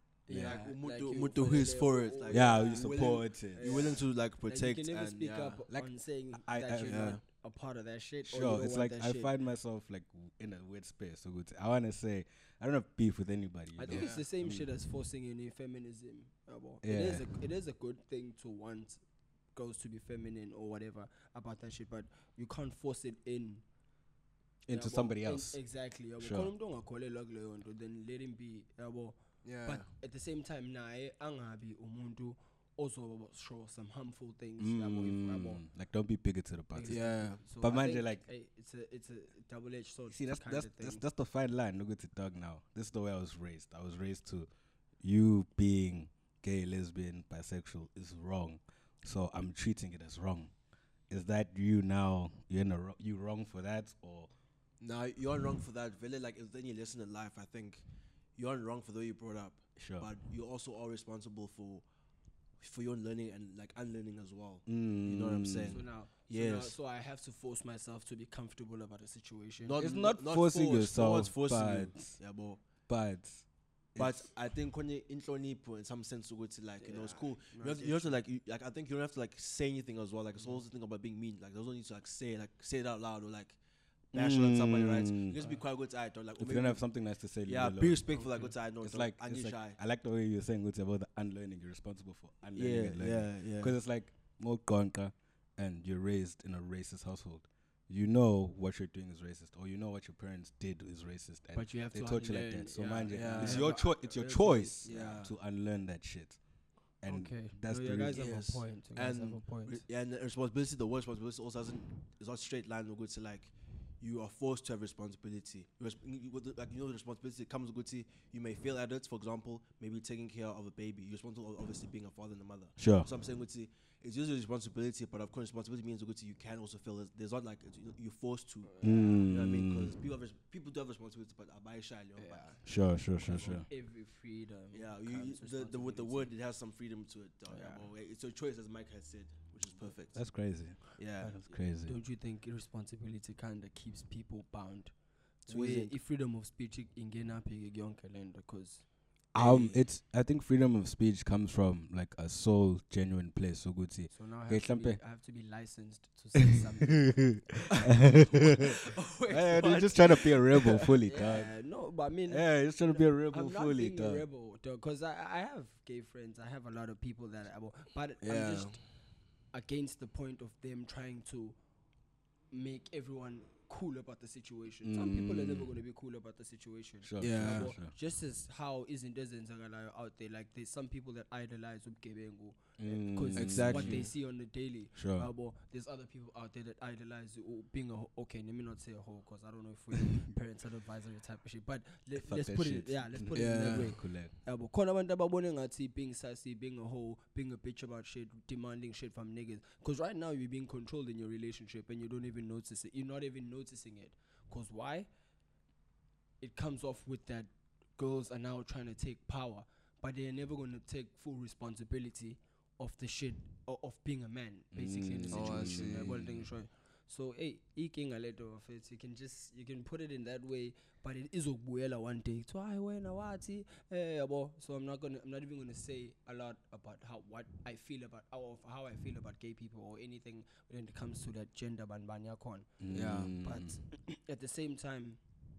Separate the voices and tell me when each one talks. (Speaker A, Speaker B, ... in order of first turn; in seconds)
Speaker A: 0.3-9.3, 13.8-19.0, 19.5-23.6, 24.7-35.6, 36.7-41.0, 65.7-69.8, 76.8-78.2, 88.1-88.5, 101.5-104.8, 107.0-109.8, 128.6-129.3, 132.2-132.7, 133.2-136.3, 137.5-137.8, 141.8-144.9, 145.4-148.8, 154.1-158.2, 159.7-168.8, 169.5-171.6, 172.5-205.1, 206.4-232.7, 233.4-235.2
Speaker B: 0.3-0.6, 2.3-4.0, 5.7-7.2, 8.2-14.7, 16.8-17.2, 24.6-25.6, 26.2-26.5, 34.6-38.2, 40.1-44.5, 45.0-50.5, 51.1-54.3, 59.8-60.1, 64.7-65.8, 69.8-72.2, 72.9-74.3, 84.1-85.5, 86.4-88.0, 88.8-106.4, 107.0-108.2, 122.8-123.1, 128.8-130.0, 132.6-133.7, 140.1-141.9, 149.3-155.0, 156.8-158.8, 159.3-161.6, 162.3-164.2, 174.8-175.7, 177.0-177.9, 182.8-184.1, 184.9-185.3, 192.2-194.3, 214.7-216.5, 232.8-233.8
Speaker C: 0.3-5.6, 6.8-7.2, 13.9-14.2, 29.4-29.9, 36.9-37.4, 54.8-57.8, 58.4-61.8, 62.6-66.7, 69.6-72.6, 74.0-83.6, 84.1-86.8, 87.5-89.8, 92.5-93.8, 103.1-105.3, 108.1-132.6, 133.3-133.6, 134.7-141.6, 145.5-145.9, 149.3-149.8, 158.5-160.9, 168.2-168.8, 177.2-177.7, 183.3-184.1, 193.3-194.0, 215.3-216.2, 232.9-233.4